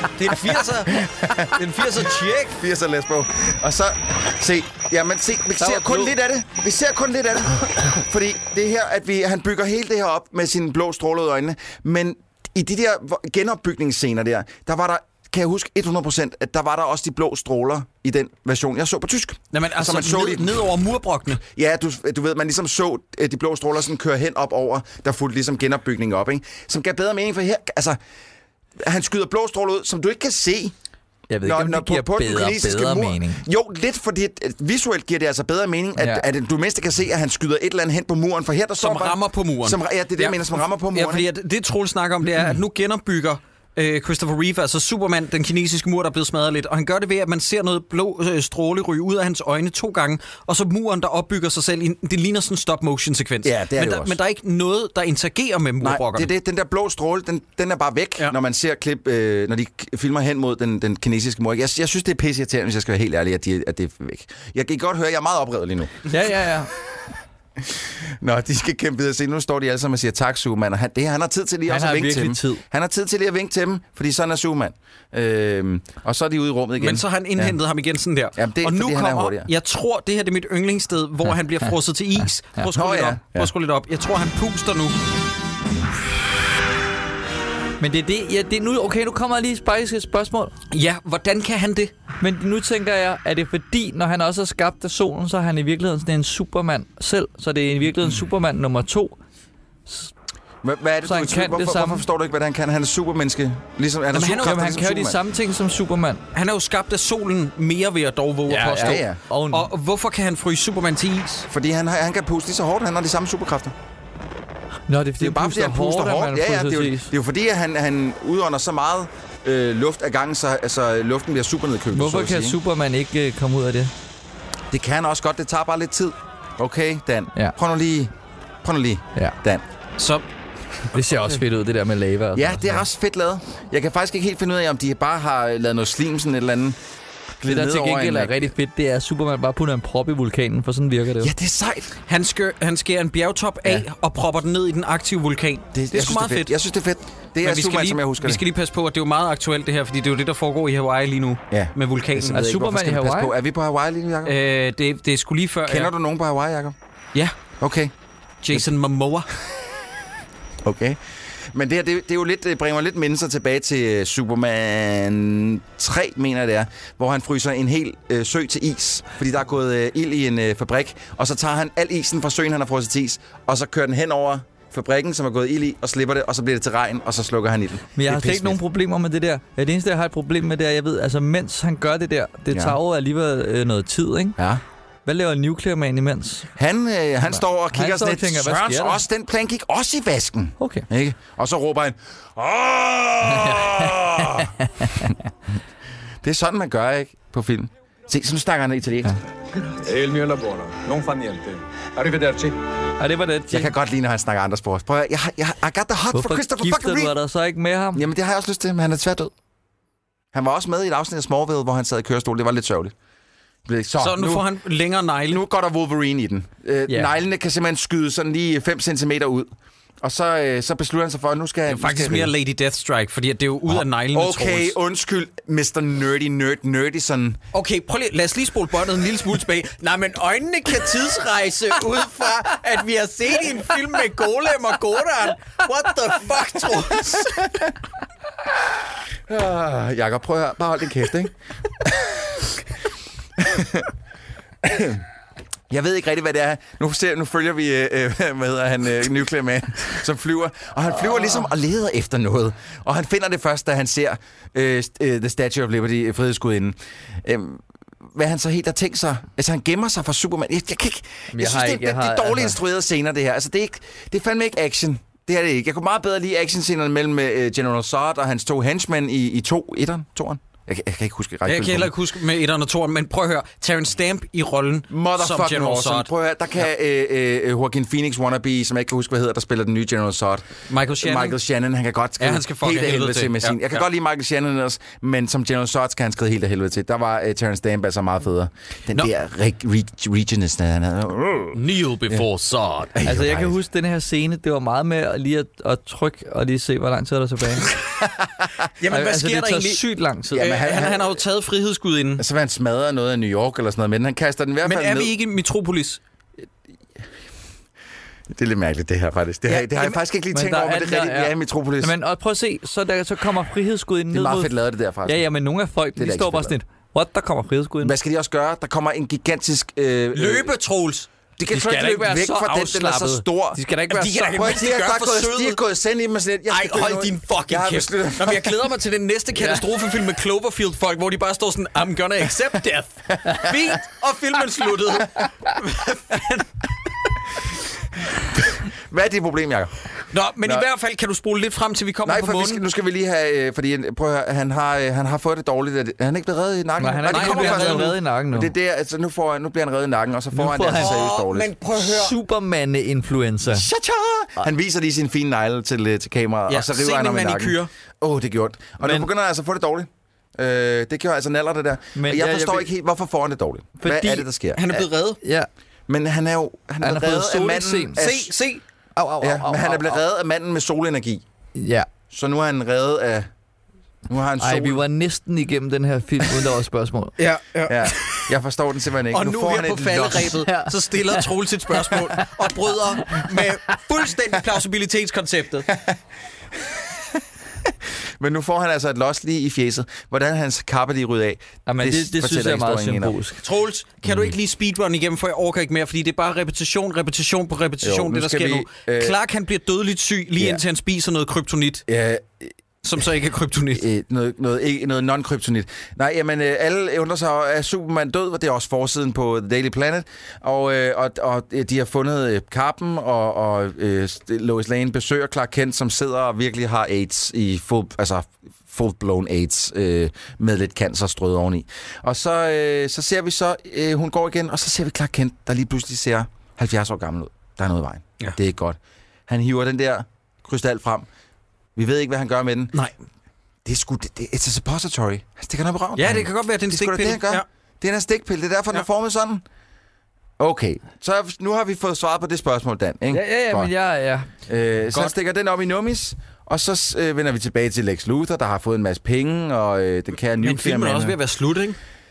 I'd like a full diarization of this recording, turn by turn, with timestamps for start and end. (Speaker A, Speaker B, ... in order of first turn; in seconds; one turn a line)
Speaker A: 0.1-2.5
Speaker B: 1.0-1.5
Speaker B: 2.4-20.6
Speaker C: 5.6-6.1
Speaker A: 19.5-21.4
Speaker B: 21.4-28.0
Speaker B: 28.8-30.7
Speaker C: 31.3-33.4
Speaker B: 31.4-41.3
Speaker C: 36.0-36.2
Speaker A: 38.8-56.3
Speaker B: 53.4-54.2
Speaker B: 55.8-66.1
Speaker C: 66.1-66.7
Speaker B: 67.6-77.6
Speaker C: 71.7-72.6
Speaker A: 76.8-85.0
Speaker B: 78.3-79.5
Speaker B: 82.7-83.5
Speaker C: 87.8-90.5
Speaker A: 90.7-91.9
Speaker C: 92.2-99.1
Speaker B: 100.6-105.2
Speaker C: 101.0-102.0
Speaker A: 104.1-104.6
Speaker C: 104.4-106.2
Speaker A: 106.3-111.5
Speaker C: 108.5-109.7
Speaker B: 108.8-109.2
Speaker B: 111.5-113.7
Speaker C: 114.9-117.1
Speaker B: 115.2-122.6
Speaker C: 121.9-123.9
Speaker B: 124.7-128.1
Speaker B: 128.6-129.6
Speaker A: 130.0-130.2
Speaker C: 130.9-132.8
Speaker B: 132.3-136.8
Speaker B: 137.4-138.5
Speaker C: 137.4-141.3
Speaker B: 141.2-141.9
Speaker A: 142.1-146.5
Speaker B: 145.7-148.4
Speaker A: 147.4-152.5
Speaker B: 151.5-154.3
Speaker C: 152.3-153.3
Speaker A: 154.2-155.9
Speaker B: 155.7-156.8
Speaker B: 157.6-157.9
Speaker A: 158.4-159.3
Speaker B: 160.6-178.6
Speaker C: 177.9-184.4
Speaker B: 182.5-182.8
Speaker C: 185.1-186.5
Speaker B: 186.6-194.5
Speaker C: 187.3-189.0
Speaker C: 190.6-190.9
Speaker C: 193.2-195.1
Speaker B: 196.2-199.2
Speaker D: 199.8-202.5
Speaker C: 203.0-203.7
Speaker B: 203.5-207.1
Speaker C: 206.1-208.0
Speaker B: 207.9-209.3
Speaker B: 210.3-212.9
Speaker B: 213.7-214.5
Speaker A: 214.0-215.4
Speaker B: 215.3-219.5
Speaker B: 220.0-222.3
Speaker A: 221.7-224.8
Speaker B: 224.1-227.4
Speaker A: 227.5-237.4
Speaker B: 239.3-242.4
Speaker B: 243.4-243.9
Speaker B: 244.6-245.0
Speaker B: 245.7-271.9
Speaker C: 261.3-262.6
Speaker A: 271.4-276.1
Speaker B: 274.9-291.6
Speaker A: 280.7-281.4
Speaker A: 282.2-283.8
Speaker A: 291.5-292.9
Speaker B: 292.9-293.6
Speaker C: 293.0-297.7
Speaker A: 298.8-302.2
Speaker C: 298.9-300.4
Speaker B: 300.3-301.2
Speaker B: 302.2-305.1
Speaker A: 304.6-306.0
Speaker B: 308.3-311.9
Speaker A: 309.5-309.9
Speaker C: 310.3-314.5
Speaker B: 314.1-315.2
Speaker C: 315.0-317.9
Speaker B: 315.9-316.5
Speaker B: 317.8-320.5
Speaker A: 320.1-321.1
Speaker B: 321.4-323.6
Speaker C: 321.5-324.5
Speaker A: 323.9-325.6
Speaker B: 324.1-328.6
Speaker A: 326.5-336.5
Speaker C: 329.4-329.6
Speaker B: 338.5-339.7
Speaker A: 340.1-342.6
Speaker B: 342.0-351.5
Speaker C: 346.8-348.5
Speaker A: 347.1-347.9
Speaker C: 350.3-351.0
Speaker A: 350.7-352.1
Speaker C: 351.8-353.7
Speaker B: 353.4-364.8
Speaker A: 356.5-357.7
Speaker C: 361.9-362.7
Speaker C: 363.8-364.3
Speaker A: 364.6-365.2
Speaker C: 365.2-365.5
Speaker B: 365.9-368.3
Speaker C: 366.8-368.0
Speaker A: 368.0-368.6
Speaker C: 368.9-370.0
Speaker B: 369.2-371.2
Speaker C: 371.6-371.9
Speaker B: 372.1-373.3
Speaker B: 374.1-374.8
Speaker C: 374.4-377.1
Speaker A: 377.2-378.2
Speaker B: 377.7-380.4
Speaker A: 379.1-385.7
Speaker C: 380.5-381.2
Speaker B: 385.7-386.0
Speaker B: 388.2-393.1
Speaker C: 391.6-393.4
Speaker A: 393.4-401.8
Speaker B: 394.0-394.3
Speaker B: 397.8-399.2
Speaker B: 401.9-402.5
Speaker A: 402.8-403.9
Speaker B: 403.7-431.1
Speaker B: 431.8-432.7
Speaker B: 433.6-439.4
Speaker A: 435.9-437.4
Speaker B: 440.4-443.7
Speaker C: 443.1-444.3
Speaker B: 444.5-451.1
Speaker A: 450.4-451.8